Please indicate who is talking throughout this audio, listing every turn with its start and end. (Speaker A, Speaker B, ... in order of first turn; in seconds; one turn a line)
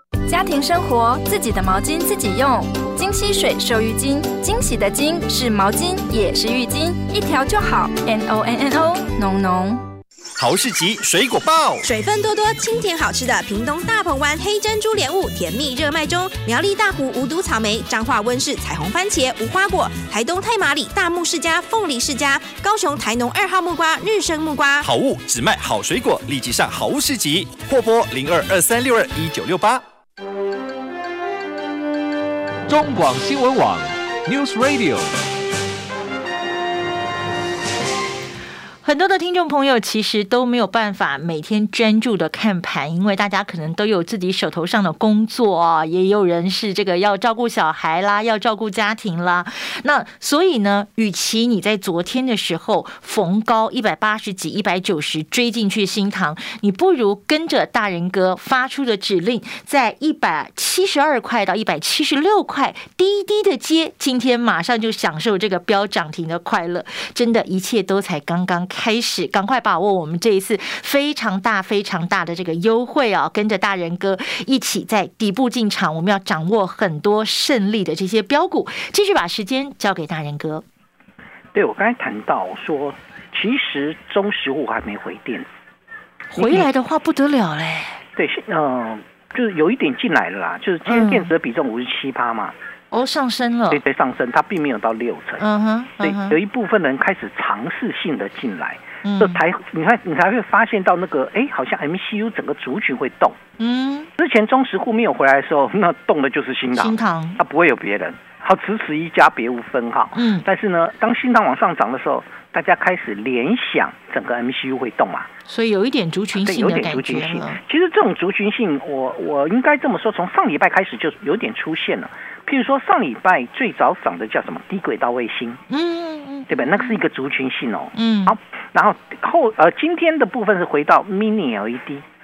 Speaker A: 0.3-9.8
Speaker B: 10.4-11.8
Speaker C: 11.8-24.9
Speaker B: 24.8-29.8
Speaker D: 32.7-35.1
Speaker E: 38.8-80.6
Speaker F: 81.5-85.5
Speaker E: 86.3-88.0
Speaker F: 86.4-86.7
Speaker F: 88.2-92.5
Speaker E: 90.9-91.3
Speaker E: 92.9-93.8
Speaker F: 93.7-95.4
Speaker E: 95.4-96.4
Speaker F: 96.0-103.4
Speaker E: 99.0-99.4
Speaker E: 103.6-104.1
Speaker F: 104.2-115.3
Speaker E: 106.8-107.4
Speaker E: 110.2-110.5
Speaker E: 115.5-117.6
Speaker F: 116.4-125.6
Speaker E: 125.7-127.0
Speaker F: 126.5-132.0
Speaker E: 128.0-128.4